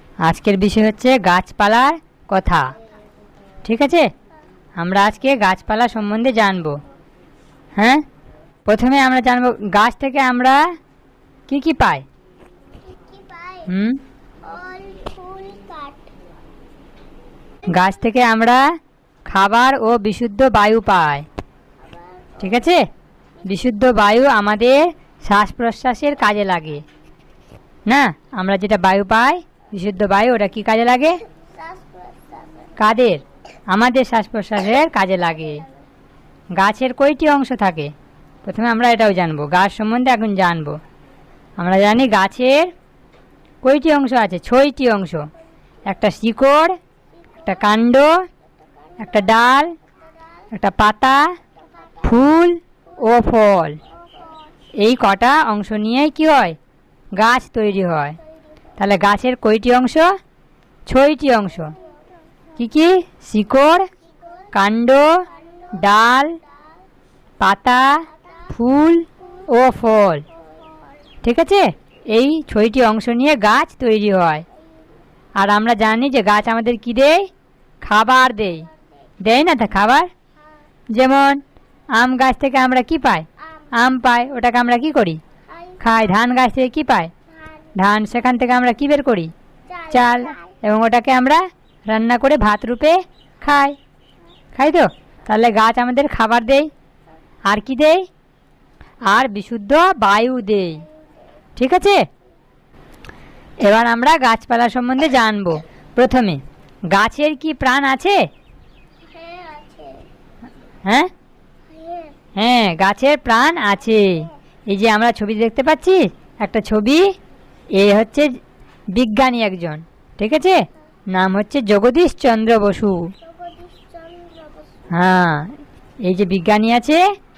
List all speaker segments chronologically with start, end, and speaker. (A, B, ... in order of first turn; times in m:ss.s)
0:00.2-0:02.7 A
0:03.6-0:04.1 A
0:04.8-0:06.8 A
0:07.8-0:08.0 A
0:08.7-0:10.7 A
0:11.5-0:12.0 A
0:12.9-0:13.7 B
0:13.7-0:14.0 A
0:14.4-0:16.1 B
0:17.7-0:18.7 A
0:19.3-0:21.3 A
0:21.8-0:22.6 B
0:22.4-0:22.9 A
0:23.4-0:26.8 A
0:27.9-0:31.2 A
0:31.3-0:32.8 B
0:32.8-0:35.6 A
0:35.4-0:35.9 B
0:36.6-0:37.9 A
0:38.4-0:40.8 A
0:41.6-0:42.7 A
0:43.6-0:45.3 A
0:45.9-0:46.8 A
0:47.3-0:47.6 B
0:47.4-0:48.3 A
0:48.6-0:49.3 B
0:49.0-0:49.8 A
0:50.1-0:50.5 B
0:50.5-0:51.4 A
0:51.6-0:52.2 B
0:52.0-0:53.8 A
0:53.8-0:54.6 B
0:54.8-0:56.6 A
0:57.2-0:58.2 A
0:58.2-0:58.5 B
0:58.8-1:00.2 A
1:00.9-1:01.8 A
1:01.7-1:02.0 B
1:02.6-1:03.9 A
1:04.0-1:04.7 B
1:04.5-1:06.4 A
1:05.2-1:05.9 B
1:07.4-1:10.2 A
1:08.1-1:08.5 B
1:09.2-1:09.5 B
1:10.3-1:11.0 B
1:11.2-1:14.4 A
1:15.4-1:17.3 A
1:17.8-1:18.7 A
1:19.2-1:20.1 A
1:20.9-1:21.4 A
1:22.0-1:25.2 A
1:23.4-1:23.7 B
1:25.5-1:26.2 B
1:25.8-1:27.1 A
1:27.3-1:27.8 B
1:27.8-1:29.3 A
1:29.7-1:30.6 B
1:29.9-1:33.8 A
1:34.6-1:36.7 A
1:37.5-1:38.1 A
1:39.1-1:40.8 A
1:40.8-1:41.2 B
1:41.6-1:42.1 A
1:43.6-1:48.3 A
1:49.1-1:50.1 B
1:50.9-1:51.1 A
1:51.7-1:52.2 B
1:52.4-1:57.1 A
1:54.0-1:54.3 B
1:57.8-1:58.4 A
1:58.9-2:03.1 A
2:03.2-2:05.1 B
2:04.9-2:07.0 A